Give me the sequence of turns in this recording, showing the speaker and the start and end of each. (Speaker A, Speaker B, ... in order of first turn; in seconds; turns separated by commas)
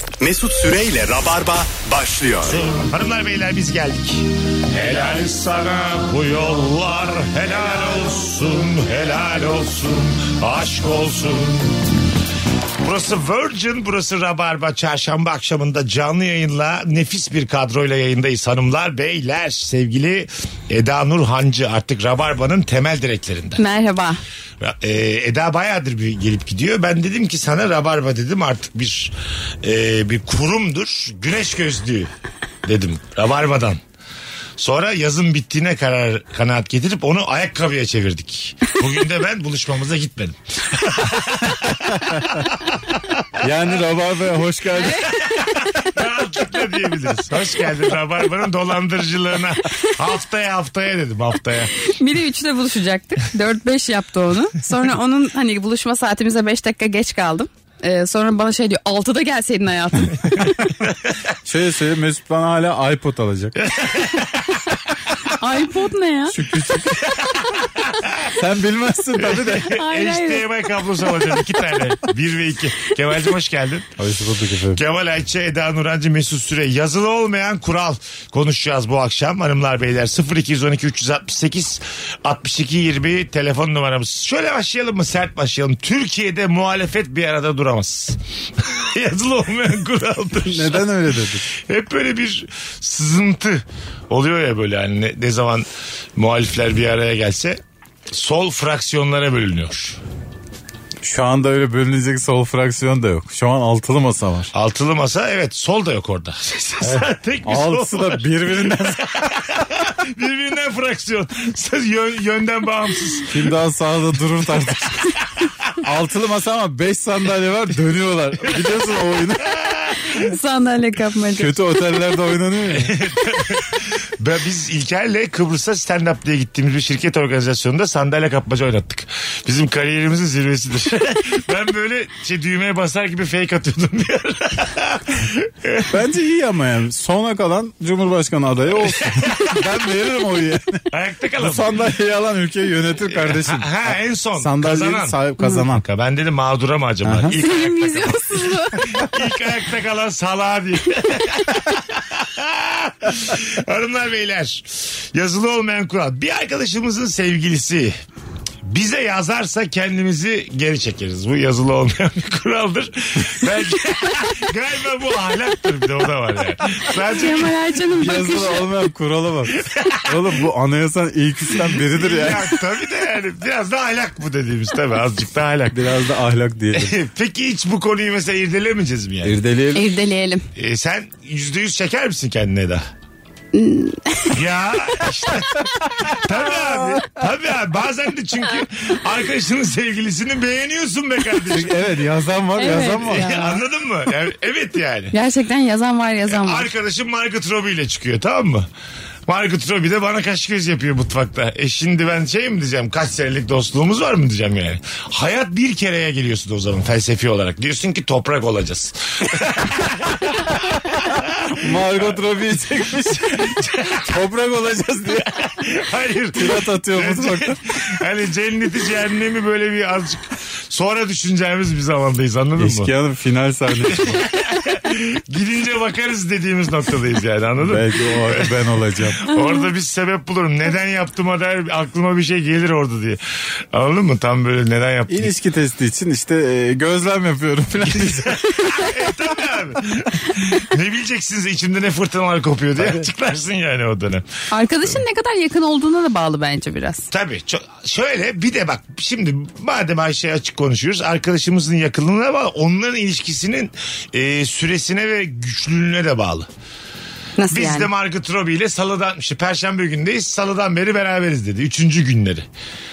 Speaker A: 0.2-2.7, Speaker B: 2.5-11.9, Speaker B: 12.8-23.6, Speaker C: 23.6-24.2, Speaker B: 24.6-32.1, Speaker B: 32.6-33.8, Speaker B: 34.6-43.4, Speaker D: 41.7-42.3, Speaker D: 43.4-45.1, Speaker C: 44.8-45.9, Speaker B: 45.4-51.7, Speaker C: 51.7-60.5, Speaker D: 61.4-63.5, Speaker B: 63.5-64.6, Speaker C: 65.3-66.3, Speaker D: 66.3-67.2, Speaker B: 67.0-68.2, Speaker D: 68.2-69.7, Speaker B: 69.2-73.9, Speaker C: 69.7-70.5, Speaker D: 74.0-74.8, Speaker B: 74.7-90.9, Speaker D: 90.5-91.5, Speaker B: 91.5-100.0, Speaker D: 101.0-104.5, Speaker B: 104.5-113.5, Speaker D: 106.8-109.4, Speaker D: 113.3-115.2, Speaker D: 115.8-119.5, Speaker B: 119.5-120.1, Speaker C: 120.2-121.5, Speaker D: 121.4-122.9, Speaker B: 122.7-136.0, Speaker D: 135.9-140.8, Speaker B: 138.8-139.5, Speaker B: 140.9-141.8, Speaker D: 141.4-145.8, Speaker B: 143.1-145.2, Speaker C: 145.4-145.6, Speaker B: 145.7-157.9, Speaker D: 147.0-147.4, Speaker C: 147.3-148.8, Speaker B: 158.6-167.5, Speaker C: 167.0-168.6, Speaker D: 168.0-172.5, Speaker B: 169.6-170.3, Speaker B: 171.6-175.9, Speaker D: 175.7-176.9, Speaker B: 176.7-179.4, Speaker D: 179.2-179.9, Speaker C: 179.7-180.4, Speaker B: 180.6-182.8, Speaker C: 183.5-184.4, Speaker B: 184.3-191.9, Speaker D: 191.5-193.3, Speaker C: 192.6-193.6, Speaker B: 192.7-195.1, Speaker C: 195.1-196.7, Speaker B: 196.3-198.7, Speaker B: 199.3-212.2, Speaker D: 211.5-215.5, Speaker B: 213.1-214.1, Speaker B: 215.1-222.9, Speaker D: 216.3-217.6, Speaker D: 222.6-224.2, Speaker B: 223.9-235.3, Speaker D: 227.6-229.3, Speaker D: 235.1-238.9, Speaker B: 237.8-244.3, Speaker D: 242.8-243.0, Speaker C: 244.5-247.1, Speaker B: 247.1-256.5, Speaker C: 257.4-257.9, Speaker B: 257.5-262.5